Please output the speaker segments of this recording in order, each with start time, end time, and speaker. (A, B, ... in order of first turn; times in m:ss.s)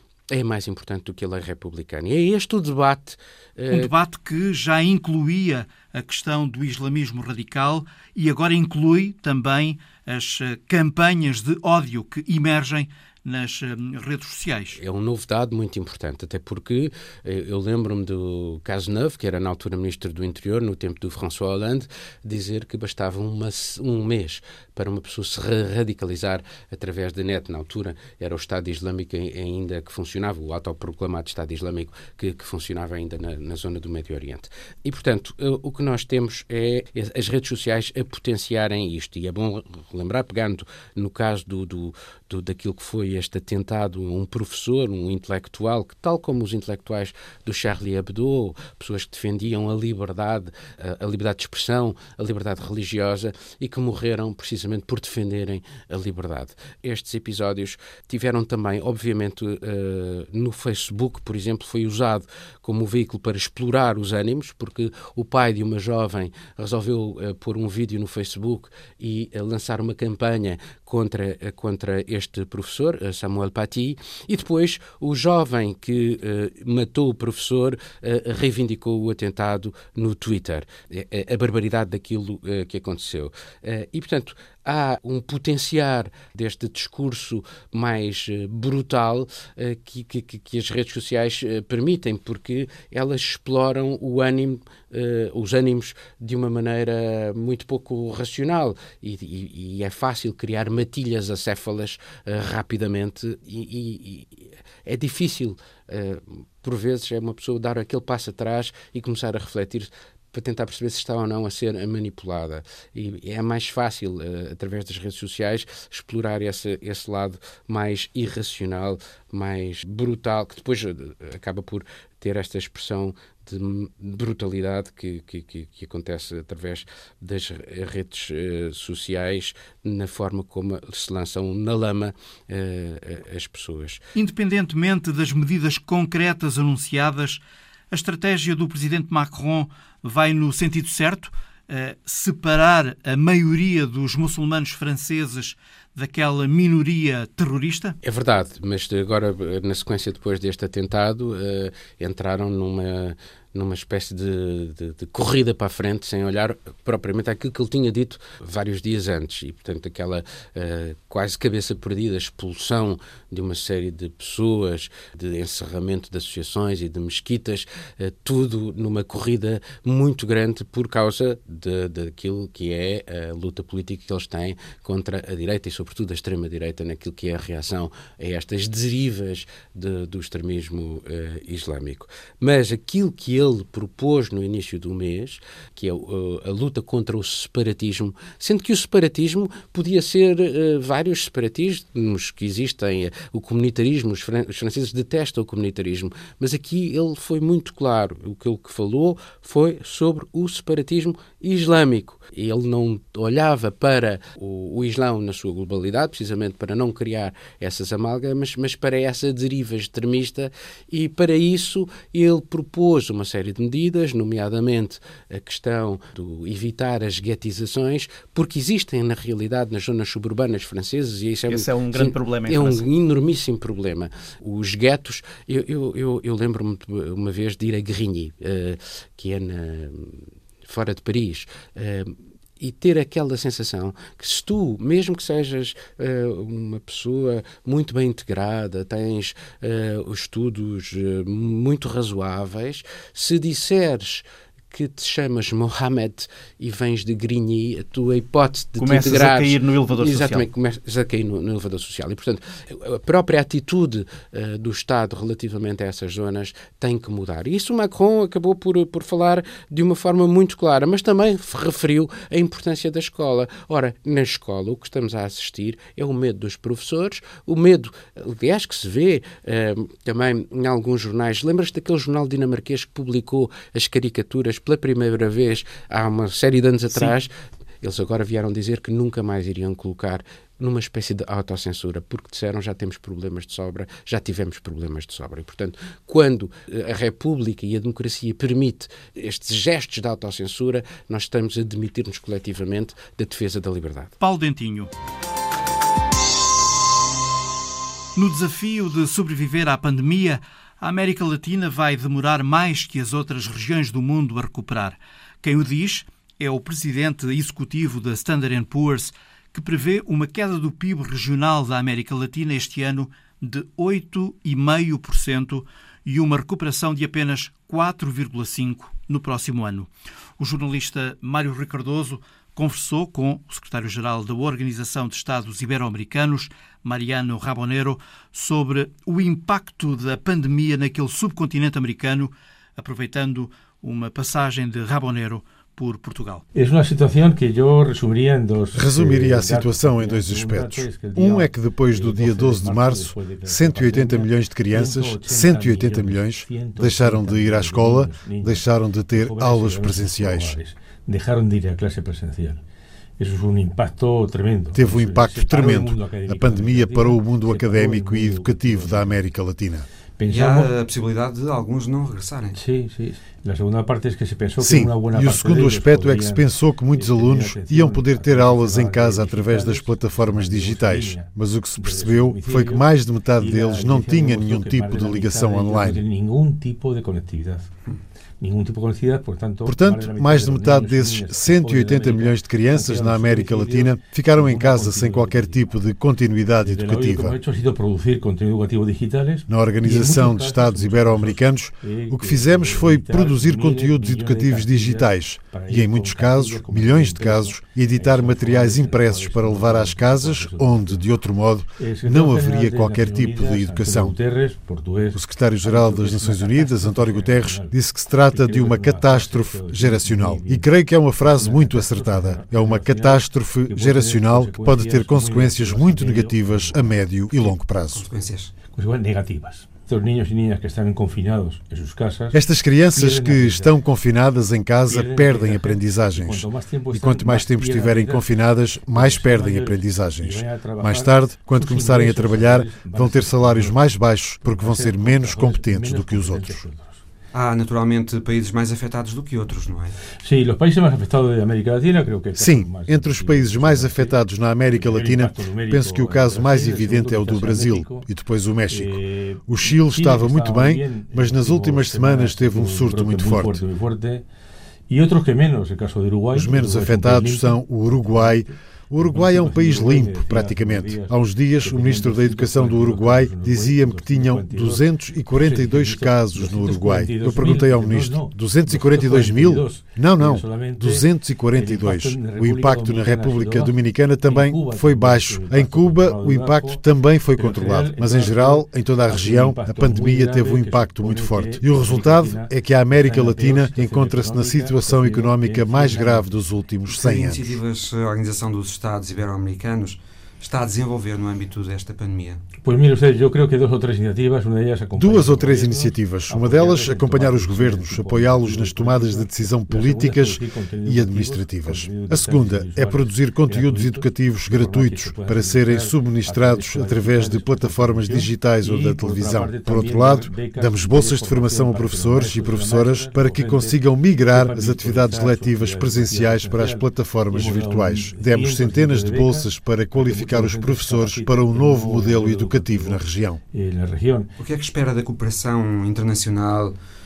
0:00.3-0:03.9 A
0:03.7-0:14.8 B
0:14.8-2:14.0 A
2:14.1-2:28.0 B
2:28.0-4:54.1 A
3:41.5-3:42.8 B
4:08.8-4:10.4 B
4:54.2-4:54.9 B
4:58.1-5:36.4 B
5:36.5-5:52.6 C
5:38.7-5:50.5 D
5:53.2-5:59.2 C
5:54.7-5:59.8 D
6:00.2-6:00.7 C
6:00.3-6:02.6 E
6:02.5-6:12.8 C
6:04.6-6:16.0 D
6:13.4-6:17.7 C
6:18.4-6:25.7 C
6:19.6-6:27.4 D
6:26.6-6:41.0 C
6:29.5-6:44.1 D
6:41.8-6:50.7 C
6:45.1-6:58.0 D
6:51.2-6:56.8 C
6:57.9-6:58.5 E
6:58.7-7:03.8 C
7:02.3-7:16.7 D
7:04.9-7:17.0 C
7:17.3-7:20.0 E
7:20.2-7:28.1 C
7:22.3-7:33.6 D
7:28.7-7:34.2 C
7:34.9-7:56.8 C
7:36.3-8:07.6 D
7:57.3-8:06.4 C
8:06.9-8:12.4 E
8:12.6-8:44.3 C
8:14.9-8:43.4 D
8:44.4-8:46.7 E